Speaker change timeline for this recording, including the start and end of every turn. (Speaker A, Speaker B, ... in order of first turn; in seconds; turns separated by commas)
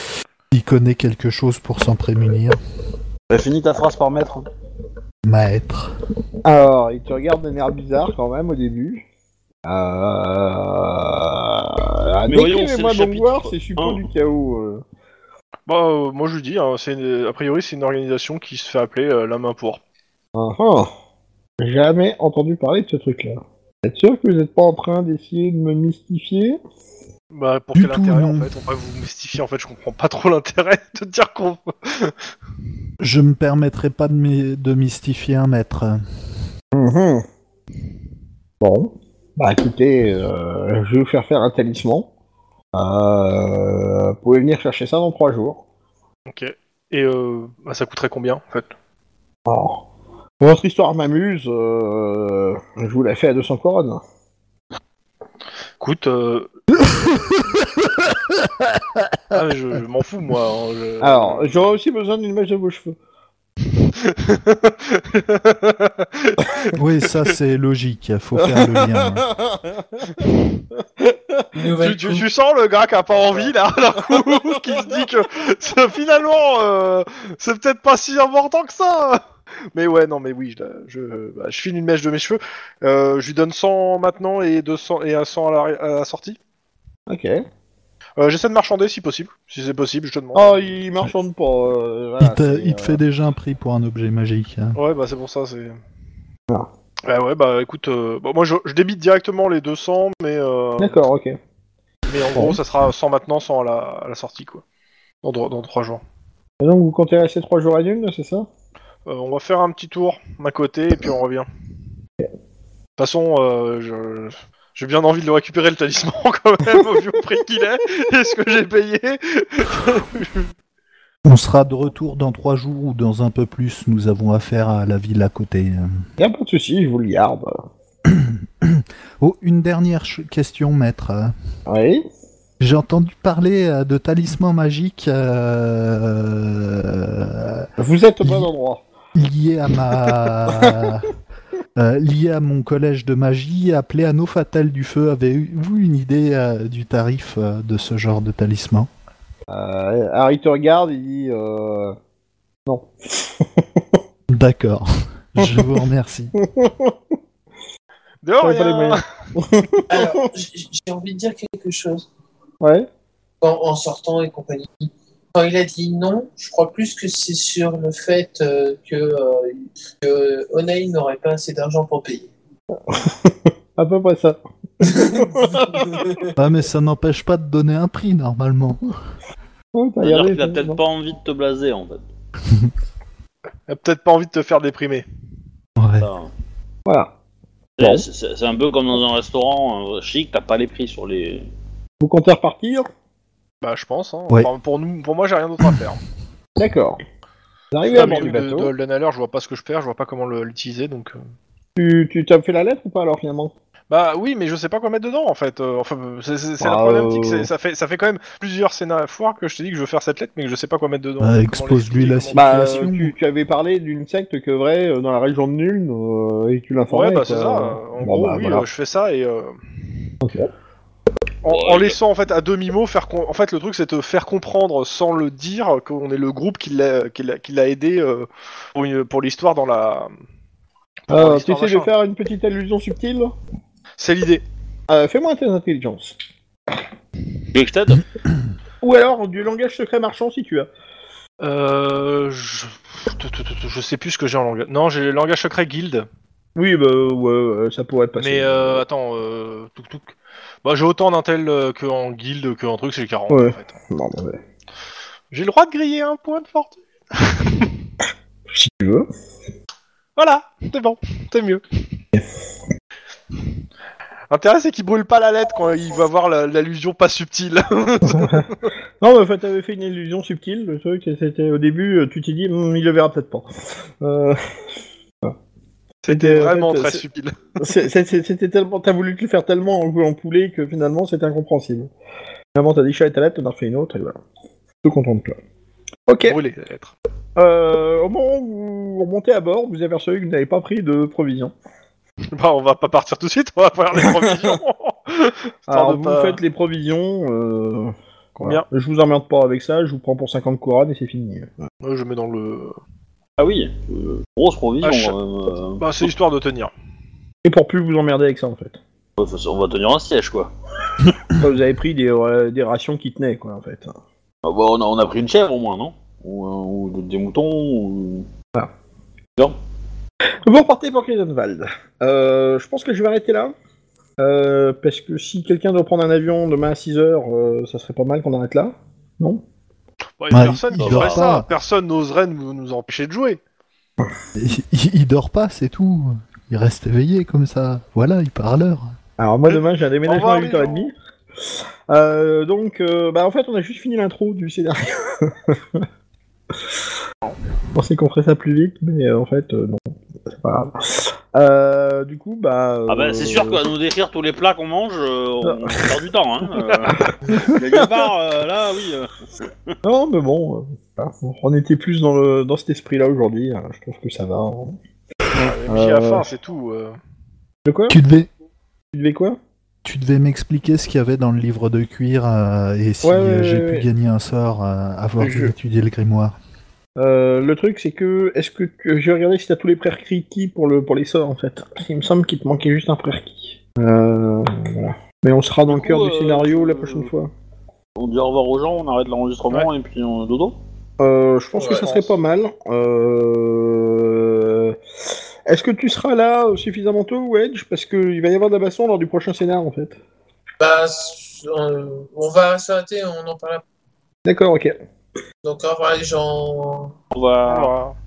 Speaker A: 0.5-2.6, Speaker B: 3.3-4.5, Speaker A: 5.2-5.9, Speaker C: 6.4-9.0, Speaker C: 9.7-14.8, Speaker B: 12.3-14.0, Speaker D: 15.7-19.8, Speaker C: 20.3-20.9, Speaker C: 21.6-26.6, Speaker D: 27.3-32.2, Speaker A: 27.7-28.5, Speaker A: 33.0-36.0, Speaker C: 36.7-37.2, Speaker C: 38.6-42.1, Speaker C: 42.7-45.6, Speaker D: 46.3-48.7, Speaker C: 49.5-49.8, Speaker C: 50.4-54.0, Speaker D: 55.8-56.5, Speaker D: 59.3-61.7, Speaker C: 61.0-63.0, Speaker D: 64.0-66.7, Speaker A: 66.7-69.2, Speaker C: 68.4-71.5, Speaker E: 71.5-72.2, Speaker D: 71.8-79.2, Speaker C: 74.1-74.6, Speaker D: 79.7-86.4, Speaker C: 87.1-87.4, Speaker D: 88.2-90.6, Speaker C: 90.3-93.0, Speaker A: 92.2-94.8, Speaker D: 94.8-95.8, Speaker D: 97.0-101.0, Speaker C: 100.8-101.4, Speaker D: 102.1-104.6, Speaker D: 105.2-106.0, Speaker C: 106.6-108.5, Speaker D: 109.1-111.5, Speaker D: 113.0-120.5, Speaker A: 121.2-125.9, Speaker C: 126.2-127.6, Speaker A: 128.1-131.3, Speaker C: 131.7-132.0, Speaker A: 132.6-137.7, Speaker C: 137.8-138.8, Speaker A: 138.2-138.5, Speaker A: 139.2-141.1, Speaker A: 141.8-148.9, Speaker C: 149.5-151.9, Speaker C: 152.7-153.8, Speaker A: 154.3-156.3, Speaker C: 156.4-157.0, Speaker D: 158.2-159.0, Speaker C: 158.4-160.2, Speaker E: 159.9-162.1, Speaker C: 162.6-162.9, Speaker E: 163.4-172.3, Speaker C: 172.8-176.2, Speaker E: 174.8-176.3, Speaker A: 176.4-178.9, Speaker C: 179.7-180.8, Speaker B: 180.0-182.0, Speaker D: 183.7-185.0, Speaker A: 185.8-186.1, Speaker B: 186.0-186.3, Speaker C: 186.8-187.1, Speaker B: 187.8-191.4, Speaker C: 192.0-192.9, Speaker D: 193.6-196.0, Speaker C: 196.6-197.0, Speaker C: 197.7-198.7, Speaker D: 197.8-201.2, Speaker C: 201.8-203.5, Speaker D: 203.9-212.9, Speaker C: 206.6-207.5, Speaker A: 211.2-213.1, Speaker C: 212.3-218.6, Speaker D: 216.9-219.6, Speaker C: 220.2-220.5, Speaker D: 221.4-230.1, Speaker B: 221.5-222.0, Speaker D: 231.1-231.9, Speaker C: 231.1-233.3, Speaker D: 234.0-234.4, Speaker C: 234.9-236.1, Speaker B: 237.5-238.0, Speaker C: 238.8-240.7, Speaker D: 241.4-246.1, Speaker C: 246.6-248.8, Speaker D: 248.2-253.7, Speaker C: 253.3-254.4, Speaker D: 255.3-257.7, Speaker C: 258.5-259.1, Speaker D: 260.2-261.6, Speaker D: 264.3-268.5, Speaker C: 268.1-268.5, Speaker C: 269.0-274.4, Speaker D: 276.0-277.7, Speaker C: 276.1-277.0, Speaker C: 277.6-281.9, Speaker C: 282.5-284.2, Speaker C: 284.8-285.4, Speaker C: 286.1-286.4, Speaker D: 286.2-286.9, Speaker C: 287.4-291.5, Speaker D: 292.3-296.4, Speaker C: 294.0-294.6, Speaker C: 295.7-301.6, Speaker D: 298.4-298.6, Speaker D: 301.8-302.8, Speaker B: 303.4-305.8, Speaker D: 304.8-305.1, Speaker D: 305.8-306.7, Speaker C: 307.4-308.8, Speaker B: 309.2-310.5, Speaker C: 311.4-313.9, Speaker B: 314.4-318.2, Speaker C: 320.4-323.5, Speaker C: 324.2-329.4, Speaker D: 330.2-333.4, Speaker A: 330.3-331.5, Speaker B: 330.8-331.3, Speaker A: 334.4-338.9, Speaker C: 339.2-345.8, Speaker D: 339.5-340.9, Speaker C: 347.7-353.6, Speaker B: 352.9-359.8, Speaker C: 357.2-357.8, Speaker C: 359.8-364.8, Speaker C: 365.3-366.3, Speaker D: 365.3-366.9, Speaker C: 367.6-368.0, Speaker A: 367.9-368.3, Speaker C: 368.9-369.4, Speaker A: 369.8-376.3, Speaker C: 373.0-373.8, Speaker C: 375.2-375.5, Speaker C: 377.0-387.3, Speaker B: 385.7-387.1, Speaker B: 387.9-390.6, Speaker C: 391.0-394.8, Speaker E: 391.5-392.0, Speaker D: 391.8-392.1, Speaker C: 395.5-399.9, Speaker E: 400.6-403.6, Speaker C: 404.2-404.7, Speaker E: 405.4-406.9, Speaker B: 407.1-407.7, Speaker D: 407.5-407.9